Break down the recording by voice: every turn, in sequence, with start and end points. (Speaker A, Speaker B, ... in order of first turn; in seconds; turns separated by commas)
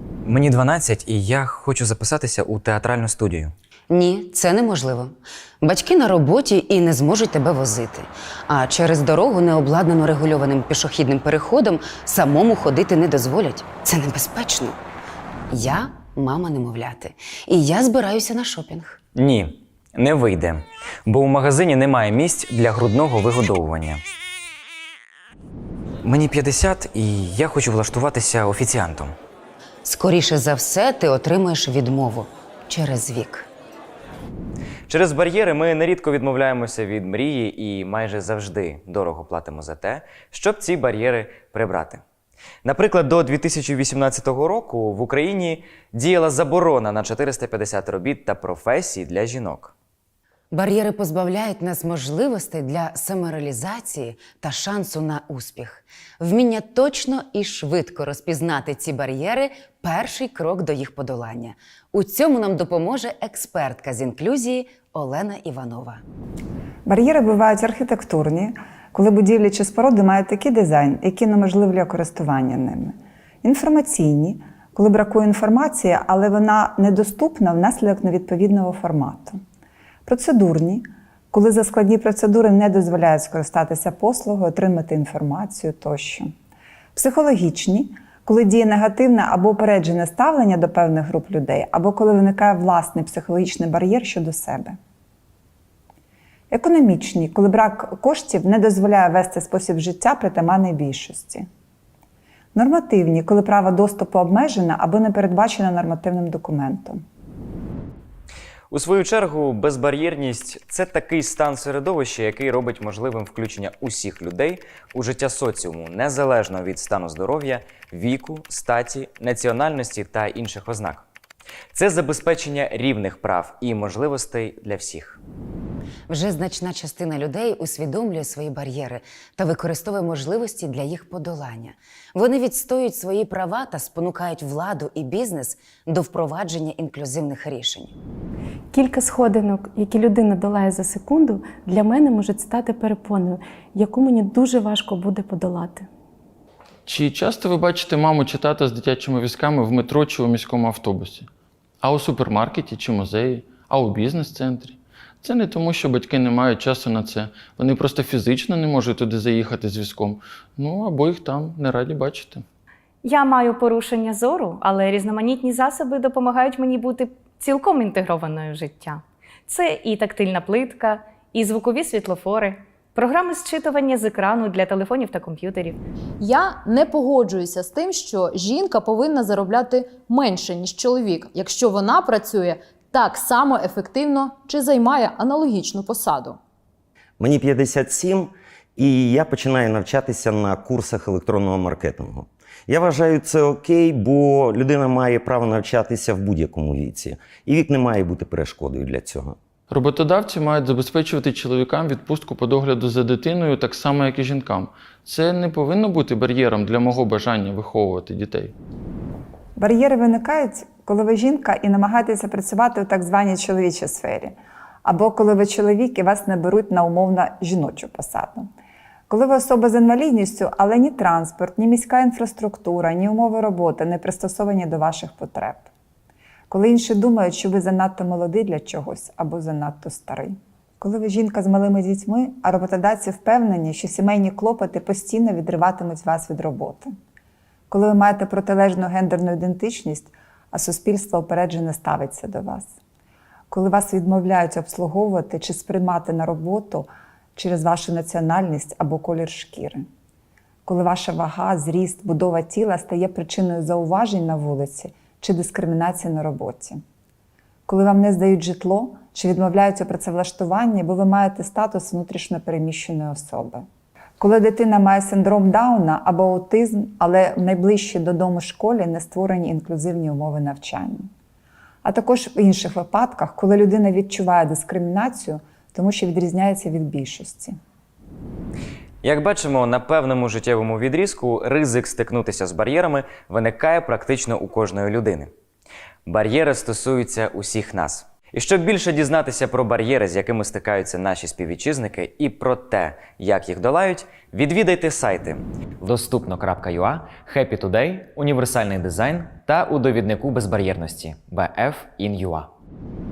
Speaker A: 0.2-3.5, Speaker B: 3.9-14.8, Speaker B: 15.5-19.0, Speaker A: 19.2-24.0, Speaker A: 26.0-29.1, Speaker B: 29.9-33.5, Speaker A: 34.9-42.0, Speaker A: 42.6-49.7, Speaker B: 50.5-66.0, Speaker C: 66.9-79.4, Speaker C: 80.1-86.3, Speaker C: 86.9-94.8, Speaker C: 96.5-101.5, Speaker C: 102.5-107.0, Speaker A: 108.7-121.0, Speaker A: 121.7-125.2, Speaker B: 126.1-137.9, Speaker D: 138.7-145.9, Speaker E: 146.9-151.3, Speaker E: 151.8-162.4, Speaker F: 163.0-175.8, Speaker G: 176.2-186.4, Speaker H: 187.2-199.4, Speaker E: 199.7-208.5, Speaker C: 209.6-218.5, Speaker C: 219.1-225.7, Speaker C: 226.5-236.9, Speaker C: 237.7-242.8, Speaker C: 243.5-249.8, Speaker C: 250.7-256.8, Speaker C: 257.7-263.6, Speaker C: 264.2-271.1, Speaker C: 271.8-277.6, Speaker A: 279.0-285.3, Speaker A: 286.1-302.5